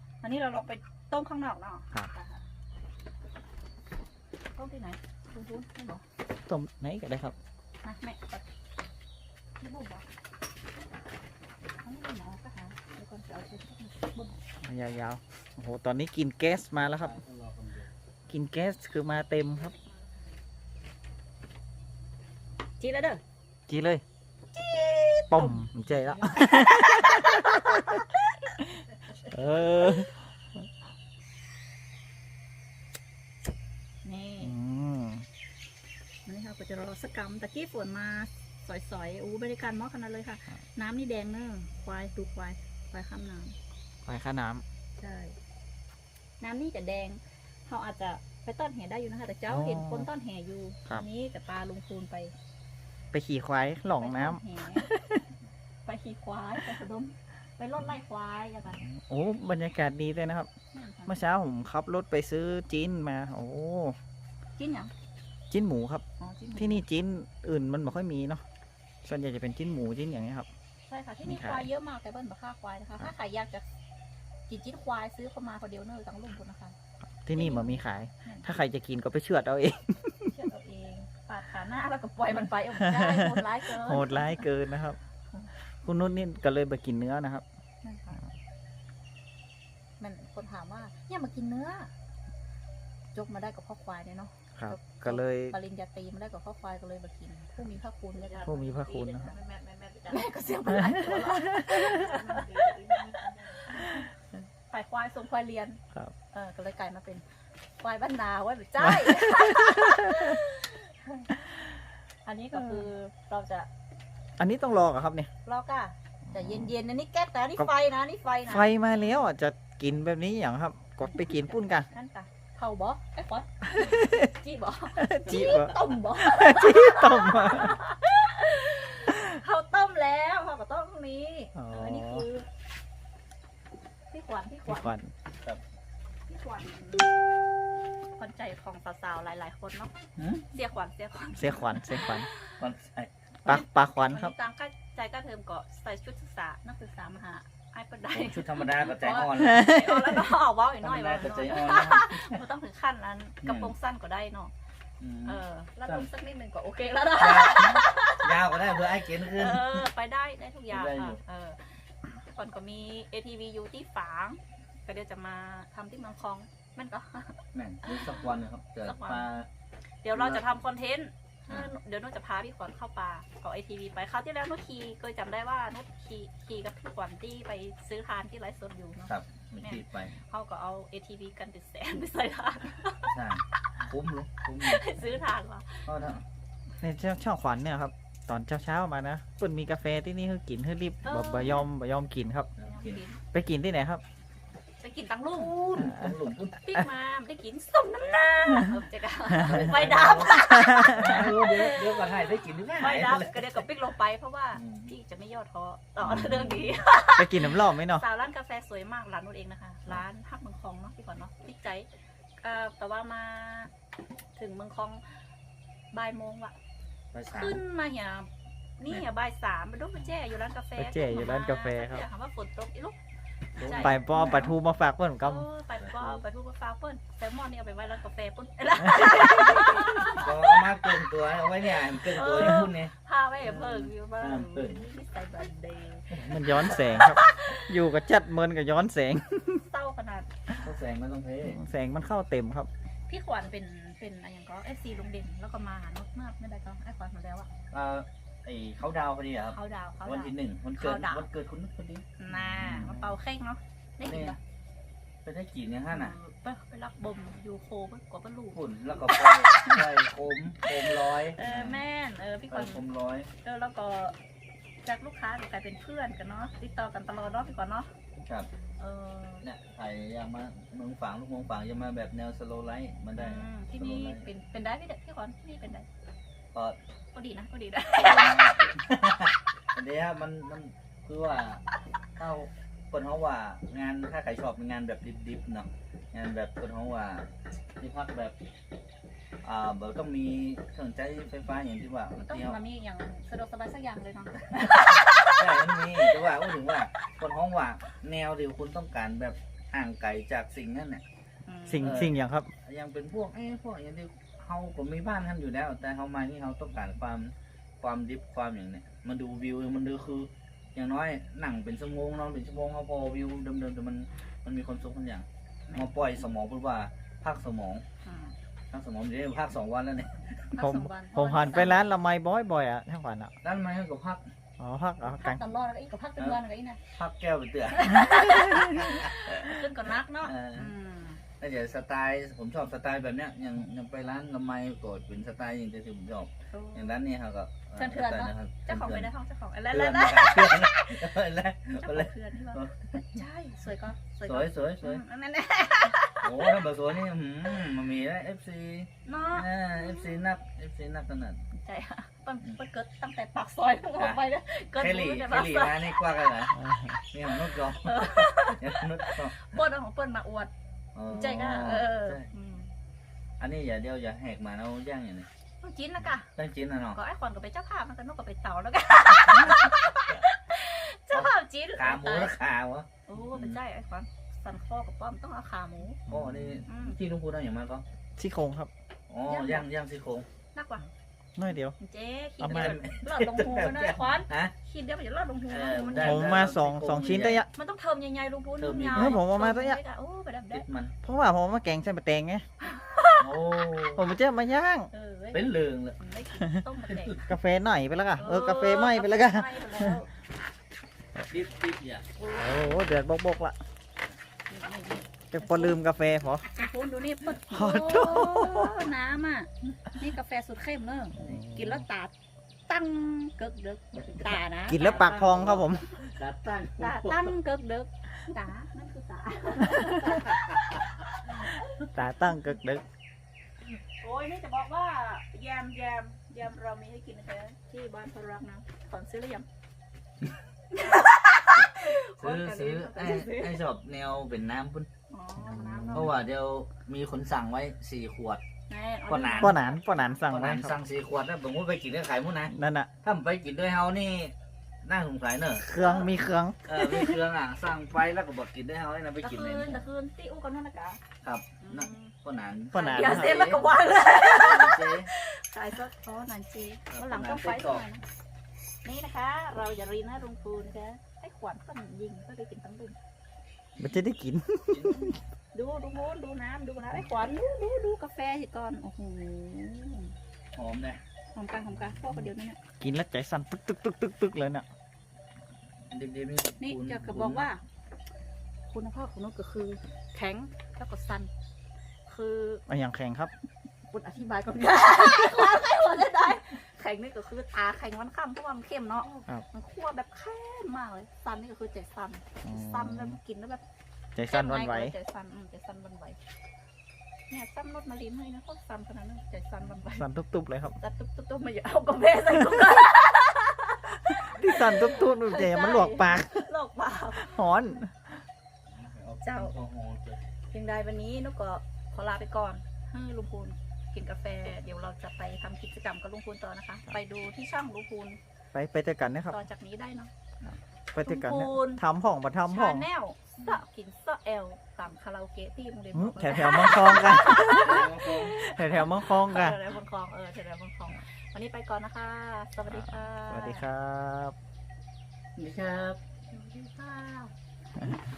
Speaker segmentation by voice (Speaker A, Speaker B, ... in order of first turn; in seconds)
Speaker A: 0.2-2.4, 4.5-6.0, 7.8-8.4, 9.6-10.1, 11.8-14.3, 22.8-23.2, 24.8-25.5, 26.4-28.6, 34.0-34.5, 36.2-43.5, 45.0-45.4, 46.4-52.3, 54.0-54.9, 55.8-58.8, 60.7-61.1, 64.6-64.9, 66.2-66.8, 70.9-73.7, 74.5-76.7, 77.3-78.5, 80.3-84.5, 87.8-88.2, 90.0-91.9, 93.1-104.1, 104.7-105.8, 106.3-107.2, 107.8-111.5, 112.2-113.7, 115.4-118.7, 121.1-132.5, 134.1-134.9, 136.3-137.1, 138.2-139.9, 140.5-142.6, 143.4-154.5, 155.2-158.3, 159.1-168.3, 168.8-169.3, 170.0-183.2, 184.6-185.9, 191.0-191.7, 192.7-193.2, 194.8-195.5, 196.6-211.9, 212.4-213.7, 214.3-215.0, 215.9-216.5, 217.3-223.0, 223.6-224.0, 225.2-230.9, 231.9-236.1, 236.7-237.7, 239.6-240.3, 243.1-247.5, 249.5-251.3, 252.2-254.4, 255.9-258.6, 261.4-262.8, 263.4-264.1, 264.8-267.9, 268.8-269.4, 273.1-275.9, 277.1-278.5, 292.1-295.5, 301.4-302.0, 318.0-318.3, 320.5-321.9, 325.0-326.8, 327.7-331.2, 336.5-336.9, 337.8-341.1, 341.8-346.6, 349.0-350.1, 351.6-356.1, 357.8-360.5, 361.1-362.7, 365.6-366.3, 366.9-372.3, 373.1-376.0, 376.6-377.0, 379.3-379.7, 380.5-380.9, 381.8-386.5, 387.5-390.6, 392.6-393.3, 394.9-395.4, 396.0-397.2, 398.2-400.1, 402.2-402.7, 404.5-405.8, 406.5-412.1, 412.7-415.5, 416.8-420.4, 421.4-421.8, 424.0-429.4, 430.7-433.6, 435.1-436.1, 438.7-440.2, 445.7-446.1, 449.2-451.0, 451.6-452.1, 452.7-458.0, 458.8-462.9, 465.5-470.1, 471.3-472.6, 476.6-477.6, 478.7-481.3, 482.1-482.6, 483.9-493.6, 494.2-496.2, 497.3-500.1, 500.8-507.5, 509.2-509.5, 510.5-518.2, 519.3-520.1, 521.0-521.8, 522.4-533.6, 536.3-537.3
Speaker B: 6.5-7.3, 14.6-17.1, 18.3-19.7, 23.7-24.0, 25.3-28.0, 29.2-30.1, 34.4-35.2, 44.0-44.6, 49.5-50.1, 53.1-55.2, 58.8-60.5, 61.1-64.0, 65.5-66.0, 66.5-68.4, 69.0-70.5, 71.2-71.6, 77.2-80.3, 82.8-85.0, 85.8-87.4, 94.6-95.5, 98.4-99.3, 100.7-102.3, 103.7-104.0, 108.8-110.4, 112.5-112.8, 114.4-115.3, 116.3-116.7, 118.5-121.9, 123.8-124.2, 125.0-127.8, 131.5-132.2, 134.7-135.1, 141.3-142.3, 143.4-144.3, 149.3-150.2, 186.8-192.5, 193.3-194.0, 200.4-201.3, 206.0-206.5, 207.1-208.1, 220.8-222.0, 223.8-225.5, 228.8-230.0, 236.2-239.6, 241.4-242.7, 252.3-253.1, 301.7-302.5, 320.6-323.3, 324.6-325.4, 328.0-329.0, 356.5-357.0, 376.1-376.6, 378.2-378.7, 381.4-381.8, 382.4-382.8, 385.9-387.5, 388.9-389.8, 391.0-392.4, 393.9-394.9, 397.2-400.0, 402.3-403.6, 405.3-406.5, 407.5-408.8, 411.1-411.8, 414.7-416.0, 421.9-422.8, 435.4-436.1, 439.4-440.7, 442.5-442.9, 445.6-447.2, 452.7-453.6, 463.8-465.1, 472.8-474.6, 482.7-483.3, 492.4-493.2, 494.1-494.9, 499.8-500.8, 504.1-506.5, 507.2-508.1, 518.5-519.4, 520.9-522.9, 525.9-529.6, 532.7-534.3
Speaker C: 16.8-17.9, 140.2-140.4, 142.6-143.1, 148.1-149.7, 150.8-152.4, 153.4-153.7, 155.0-156.1, 157.1-159.9, 160.7-161.2, 167.5-169.5, 170.1-170.4, 179.1-180.1, 183.1-185.1, 185.9-186.2, 192.6-193.0, 195.3-196.6, 199.4-203.7, 204.5-204.9, 217.1-217.6, 223.6-224.5, 225.8-226.2, 230.1-234.8, 236.1-237.0, 240.6-241.6, 247.7-252.0, 254.0-254.4, 255.2-256.1, 258.5-261.8, 262.5-263.3, 269.4-274.3, 277.9-281.6, 282.2-287.3, 287.8-288.3, 289.4-292.6, 294.5-301.0, 301.8-317.8, 318.7-320.3, 323.4-324.2, 327.0-328.1, 330.2-330.7, 331.4-339.1, 339.7-343.0, 344.2-345.0, 346.2-351.4, 353.9-354.2, 354.7-359.5, 360.9-362.3, 363.4-365.3, 366.4-367.0, 371.1-373.6, 376.1-377.8, 379.1-380.2, 382.4-384.5, 385.5-387.4, 388.6-389.2, 390.5-390.9, 393.2-394.1, 395.3-396.0, 396.9-397.2, 401.3-402.0, 414.0-417.3, 420.1-420.4, 431.5-434.9, 435.9-438.4, 439.1-439.6, 440.2-445.6, 446.7-449.9, 451.2-455.1, 456.9-457.8, 464.7-465.1, 470.5-471.0, 475.9-477.5, 508.7-510.2, 527.4-528.4, 535.4-536.0